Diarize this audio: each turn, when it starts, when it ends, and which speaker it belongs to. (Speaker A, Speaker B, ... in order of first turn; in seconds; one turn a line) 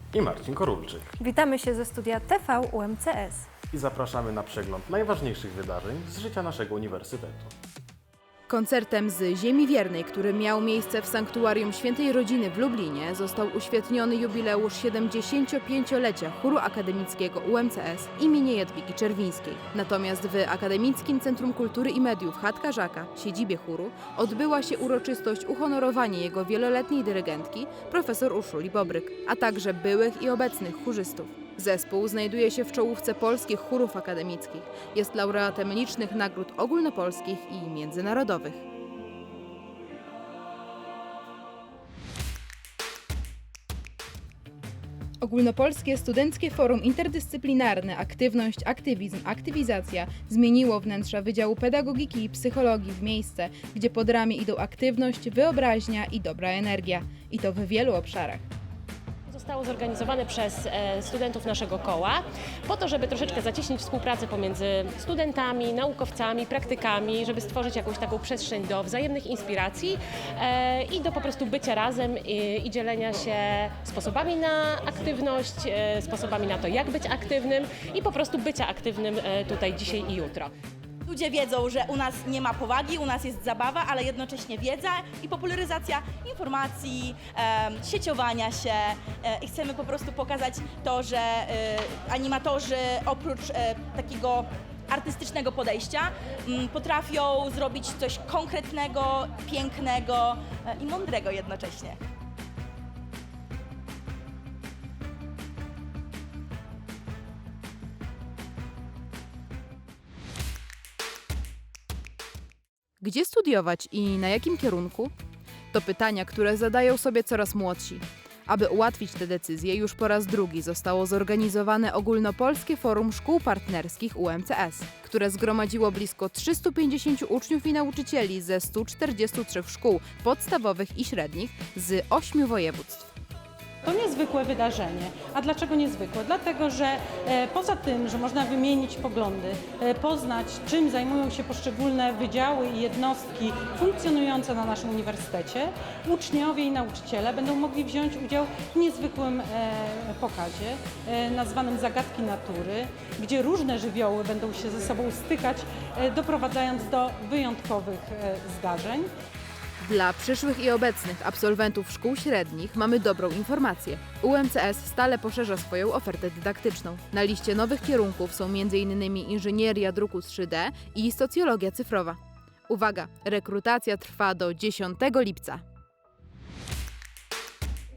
Speaker A: 0.1-1.1
Speaker B: 1.2-3.5
Speaker A: 3.7-7.5
Speaker C: 8.5-38.6
Speaker C: 45.2-58.4
Speaker D: 59.3-80.5
Speaker E: 81.0-102.0
Speaker C: 113.0-115.1
Speaker C: 115.7-133.1
Speaker F: 133.8-159.1
Speaker C: 159.8-175.6